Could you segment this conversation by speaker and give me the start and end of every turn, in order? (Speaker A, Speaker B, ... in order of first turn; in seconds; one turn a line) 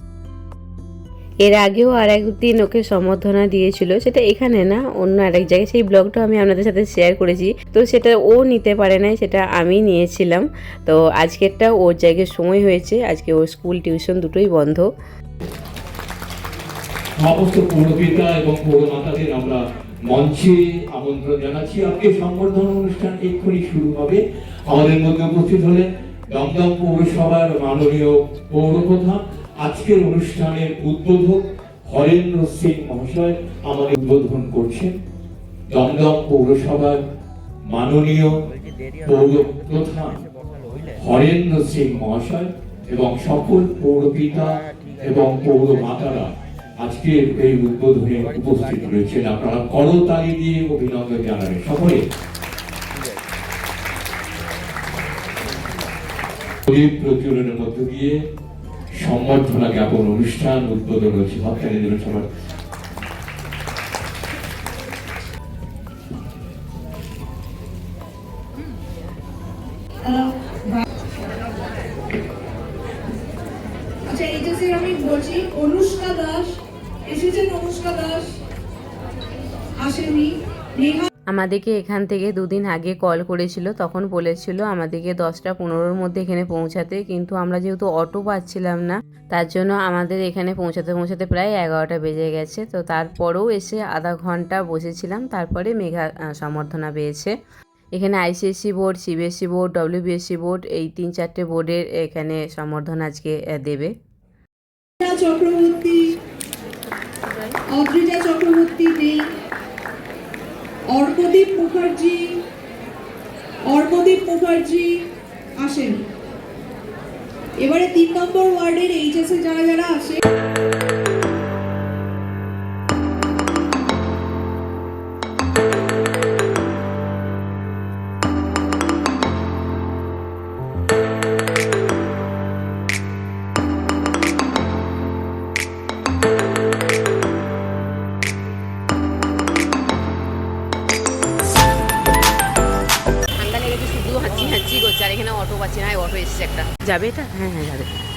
Speaker A: 1.4-14.9
Speaker B: 17.2-35.0
Speaker B: 35.7-37.0
Speaker B: 37.7-38.4
Speaker B: 39.0-40.2
Speaker B: 40.9-44.5
Speaker B: 45.0-52.0
Speaker B: 56.7-58.1
Speaker B: 59.0-62.3
Speaker C: 70.0-70.8
Speaker C: 74.0-78.3
Speaker C: 79.8-81.1
Speaker A: 81.3-97.3
Speaker A: 97.9-103.9
Speaker C: 105.0-106.2
Speaker C: 107.7-109.3
Speaker C: 110.9-112.5
Speaker C: 113.6-116.1
Speaker C: 117.6-120.2
Speaker A: 143.4-147.9